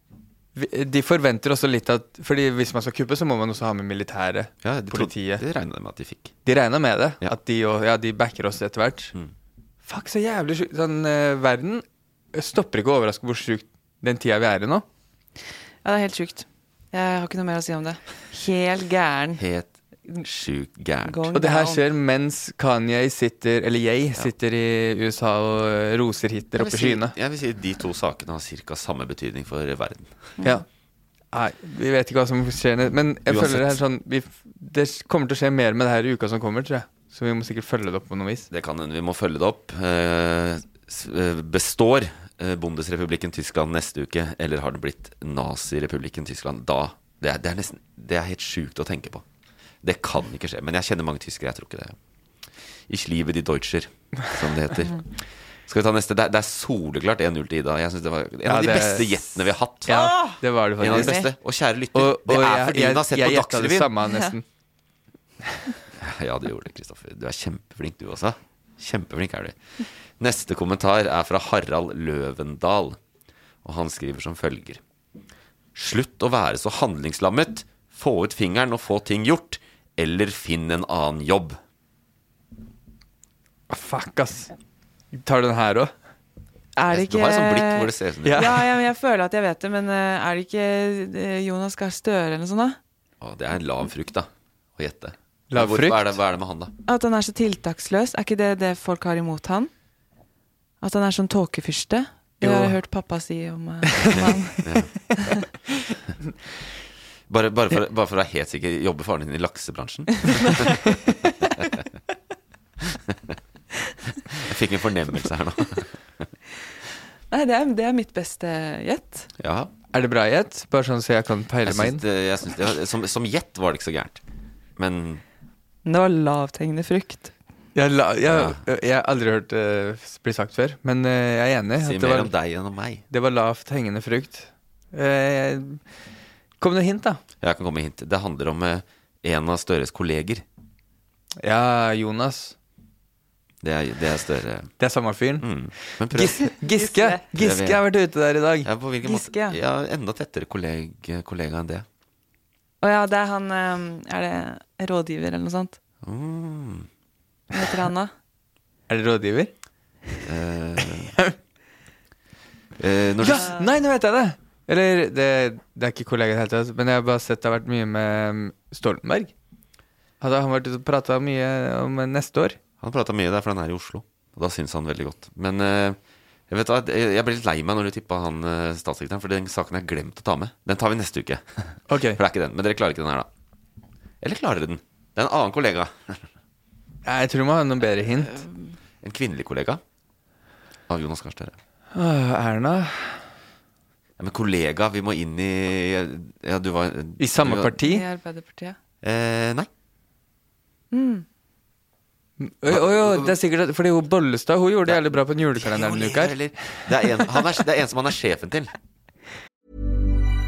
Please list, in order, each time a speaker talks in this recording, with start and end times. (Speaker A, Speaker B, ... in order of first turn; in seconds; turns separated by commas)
Speaker A: 0.5-5.4, Speaker B: 4.6-6.3, Speaker A: 6.4-9.1, Speaker A: 9.8-14.8, Speaker C: 15.8-19.4, Speaker B: 19.4-21.3, Speaker C: 21.1-21.8, Speaker A: 21.3-27.1, Speaker B: 26.6-30.3, Speaker A: 31.3-38.5, Speaker B: 33.3-33.8, Speaker B: 38.5-49.2, Speaker B: 49.8-52.0, Speaker B: 52.9-60.2, Speaker A: 58.5-61.2, Speaker C: 60.1-61.3, Speaker B: 60.8-63.9, Speaker A: 61.9-64.4, Speaker B: 66.0-69.6, Speaker B: 70.2-73.0, Speaker B: 73.6-74.8, Speaker B: 75.7-81.6, Speaker A: 83.7-84.5, Speaker A: 85.1-85.9, Speaker C: 86.8-92.8, Speaker B: 86.9-88.6, Speaker A: 88.2-88.5, Speaker B: 93.2-96.7, Speaker A: 95.5-96.2, Speaker C: 96.8-99.7, Speaker C: 100.8-105.4, Speaker A: 102.4-102.8, Speaker B: 104.1-104.9, Speaker B: 107.3-110.9, Speaker C: 110.2-110.6, Speaker B: 112.9-113.4, Speaker B: 114.3-116.3, Speaker C: 117.3-119.3, Speaker B: 119.4-119.7, Speaker A: 119.9-122.0, Speaker B: 121.6-124.2, Speaker B: 124.8-125.2, Speaker C: 125.8-127.3, Speaker A: 127.7-132.3, Speaker B: 128.2-128.6, Speaker B: 131.8-133.0, Speaker A: 133.1-135.8, Speaker A: 136.6-137.2, Speaker B: 137.4-140.4, Speaker A: 141.4-142.5, Speaker B: 143.6-144.7, Speaker A: 144.8-148.7, Speaker B: 145.4-146.5, Speaker C: 146.6-147.2, Speaker B: 147.3-147.8, Speaker B: 148.6-151.8, Speaker C: 149.0-149.6, Speaker C: 152.8-155.8, Speaker B: 156.0-156.9, Speaker C: 157.5-158.1, Speaker A: 158.9-159.5, Speaker B: 160.2-161.1, Speaker B: 162.8-163.5, Speaker A: 163.2-169.3, Speaker C: 163.3-163.6, Speaker A: 170.2-172.6, Speaker B: 172.8-176.0, Speaker B: 176.5-183.3, Speaker A: 181.9-182.2, Speaker B: 184.2-186.3, Speaker A: 187.0-188.4, Speaker C: 188.3-188.7, Speaker B: 189.0-189.8, Speaker B: 190.9-191.6, Speaker A: 191.9-193.2, Speaker B: 194.2-197.8, Speaker A: 197.2-198.0, Speaker C: 197.8-198.8, Speaker B: 199.0-199.7, Speaker C: 200.9-201.2, Speaker A: 202.4-206.5, Speaker B: 202.7-203.4, Speaker B: 205.5-208.7